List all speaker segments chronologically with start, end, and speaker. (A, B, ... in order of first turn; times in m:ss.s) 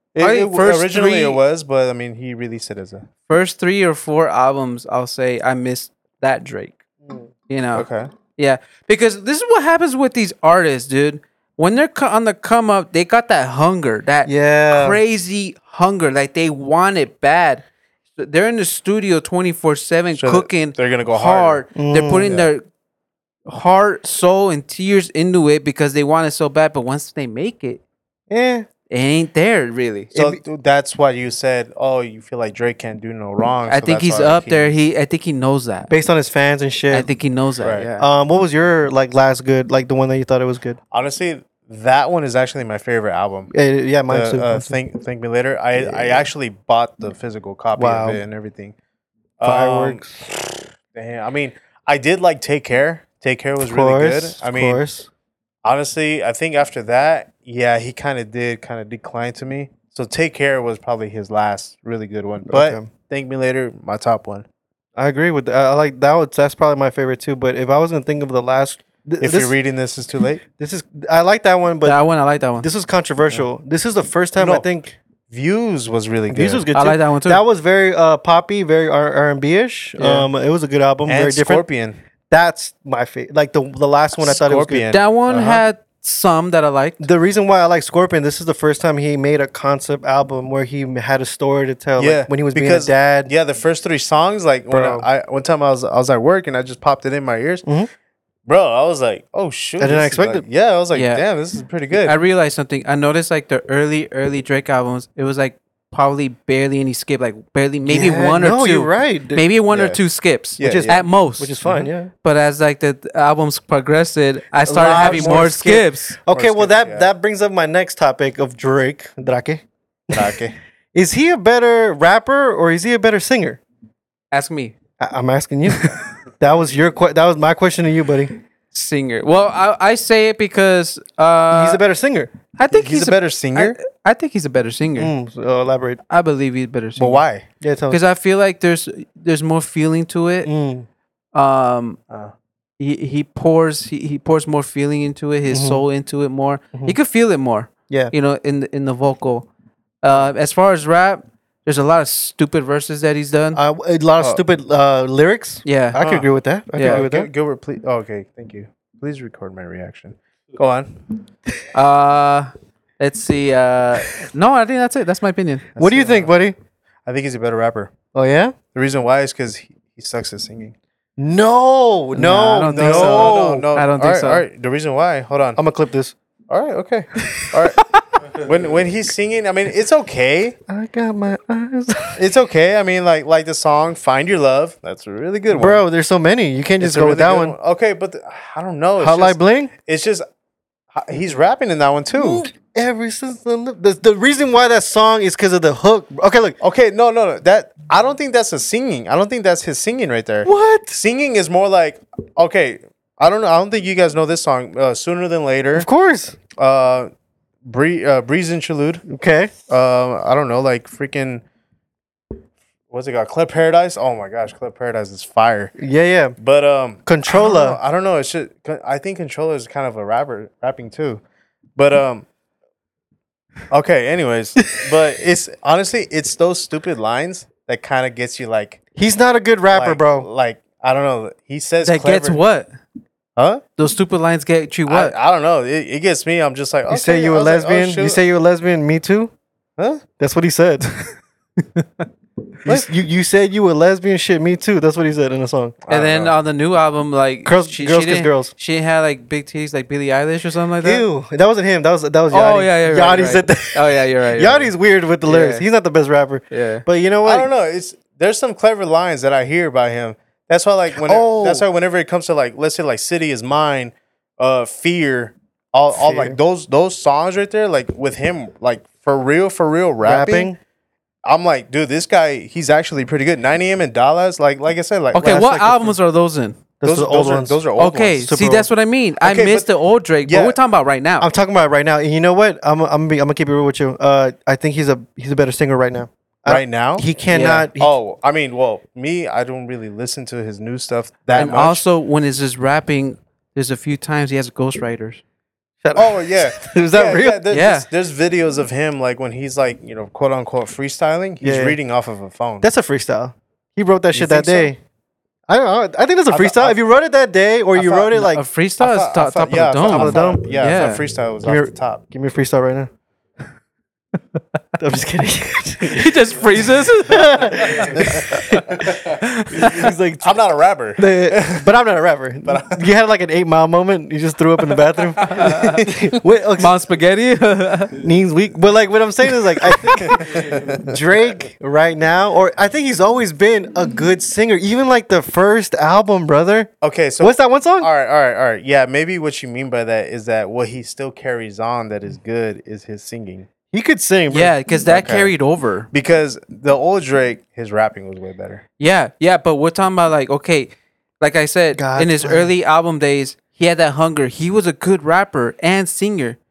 0:00.1-0:03.0 A
0:00.2-0:01.4 B
0:03.3-0:06.8 B
0:07.5-0:17.6 B
0:07.7-0:08.1 A
0:14.3-0:15.0 C
0:18.2-0:22.6 B
0:20.1-0:21.6 A
0:21.7-0:22.4 C
0:22.2-0:22.5 A
0:23.5-0:27.8 B
0:28.3-0:28.7 C
0:28.9-0:30.1 B
0:30.1-0:34.7 A
0:33.7-0:35.9 B
0:35.9-0:37.1 C
0:36.9-0:38.1 B
0:37.6-0:37.9 A
0:38.0-0:40.8 C
0:40.9-0:43.5 A
0:43.5-0:44.8 C
0:44.1-0:48.7 A
0:45.7-0:46.3 C
0:47.8-0:48.2 C
0:49.4-0:50.0 A
0:49.4-0:50.2 C
0:50.9-0:54.8 A
0:53.6-0:55.1 C
0:55.6-1:04.4 A
1:02.4-1:02.9 C
1:05.0-1:09.5 C
1:09.2-1:10.4 A
1:10.6-1:12.0 C
1:11.8-1:12.7 B
1:12.6-1:15.0 C
1:14.4-1:14.7 A
1:15.3-1:16.7 A
1:16.3-1:21.6 C
1:16.7-1:17.4 B
1:20.0-1:20.3 B
1:21.1-1:22.0 A
1:22.3-1:25.0 C
1:24.2-1:25.6 A
1:24.9-1:27.0 B
1:27.0-1:33.3 C
1:32.0-1:37.6 A
1:34.7-1:35.1 C
1:37.6-1:37.9 C
1:38.5-1:42.2 A
1:39.8-1:40.4 C
1:40.9-1:41.2 B
1:42.0-1:51.6 B
1:47.8-1:49.4 C
1:49.7-1:50.0 A
1:50.6-1:51.0 A
1:50.6-1:52.1 C
1:51.6-1:51.9 A
1:52.2-1:56.2 B
1:54.6-2:00.3 C
1:54.7-1:55.5 A
1:56.3-1:57.1 A
2:00.1-2:00.6 A
2:00.9-2:03.6 C
2:04.3-2:04.7 B
2:05.0-2:08.3 C
2:08.7-2:11.8 B
2:11.5-2:12.3 C
2:12.6-2:15.1 B
2:12.7-2:13.8 A
2:15.0-2:16.0 C
2:16.1-2:17.2 B
2:17.0-2:17.5 A
2:17.6-2:18.0 C
2:17.9-2:20.5 B
2:20.4-2:20.9 C
2:21.3-2:22.0 B
2:22.8-2:29.5 B
2:25.5-2:25.8 C
2:30.0-2:33.6 B
2:33.6-2:37.3 C
2:35.6-2:36.0 B
2:36.0-2:36.3 A
2:36.7-2:37.0 B
2:36.8-2:41.0 A
2:41.7-2:45.8 B
2:45.8-2:46.6 C
2:45.8-2:46.3 A
2:47.0-2:47.9 A
2:48.1-2:48.6 C
2:48.7-2:50.7 A
2:51.2-2:53.7 C
2:52.1-2:54.4 B
2:52.7-2:55.6 A
2:55.6-2:56.1 C
2:56.5-3:00.6 A
3:00.7-3:02.2 C
3:02.1-3:05.8 A
3:05.5-3:07.6 C
3:06.8-3:10.2 A
3:09.0-3:09.7 C
3:10.9-3:12.4 A
3:12.2-3:16.6 C
3:16.6-3:25.9 A
3:20.4-3:21.0 C
3:25.7-3:26.4 C
3:26.5-3:27.1 A
3:27.6-3:29.0 A
3:29.1-3:29.5 C
3:29.7-3:31.4 A
3:32.9-3:35.7 A
3:35.8-3:36.4 C
3:36.4-3:41.2 A
3:37.0-3:37.8 C
3:41.8-3:42.3 A
3:43.7-3:48.8 A
3:49.0-3:50.3 C
3:49.7-3:52.4 A
3:51.8-3:52.7 B
3:53.4-3:53.6 A
3:53.8-3:55.2 B
3:54.9-3:58.2 A
3:56.9-3:59.3 C
3:59.8-4:00.0 A
4:00.2-4:01.1 C
4:01.6-4:02.0 B
4:02.7-4:05.8 C
4:05.8-4:06.3 A
4:05.9-4:11.0 B
4:07.4-4:08.5 C
4:10.8-4:17.5 C
4:12.3-4:14.7 B
4:15.2-4:15.6 B
4:16.5-4:16.8 B
4:17.2-4:30.5 A
4:20.9-4:21.6 C
4:25.9-4:26.4 C
4:30.0-4:30.6 C
4:31.2-4:35.9 A
4:35.1-4:36.6 B
4:35.2-4:35.6 C
4:36.8-4:37.6 C
4:36.8-4:38.3 A
4:37.8-4:41.3 B
4:38.2-4:38.7 C
4:39.2-4:39.7 A
4:40.2-4:40.6 A
4:41.2-4:47.9 C
4:46.4-4:47.0 A
4:47.3-4:47.7 B
4:47.8-4:51.8 A
4:51.4-4:55.2 B
4:55.8-4:57.5 C
4:56.0-5:02.7 A
4:57.5-4:57.9 B
5:01.4-5:01.8 C
5:02.6-5:04.8 C
5:04.1-5:04.6 A
5:04.2-5:04.7 B
5:05.5-5:08.4 C
5:06.3-5:06.8 A
5:07.7-5:08.1 A
5:08.1-5:11.0 B
5:08.8-5:12.0 A
5:09.8-5:10.4 C
5:11.4-5:12.9 C
5:14.8-5:20.4 C
5:15.8-5:19.9 B
5:17.9-5:18.3 A
5:20.2-5:21.7 A
5:21.0-5:26.7 C
5:22.4-5:22.9 A
5:25.2-5:25.9 B
5:25.4-5:26.0 A
5:26.6-5:28.0 B
5:28.0-5:37.9 C
5:29.6-5:30.2 B
5:30.0-5:31.0 A
5:36.8-5:43.5 A
5:43.7-5:44.5 C
5:44.3-5:45.9 B
5:44.9-5:45.3 A
5:45.9-5:48.6 A
5:48.8-5:56.4 B
5:51.7-5:52.5 C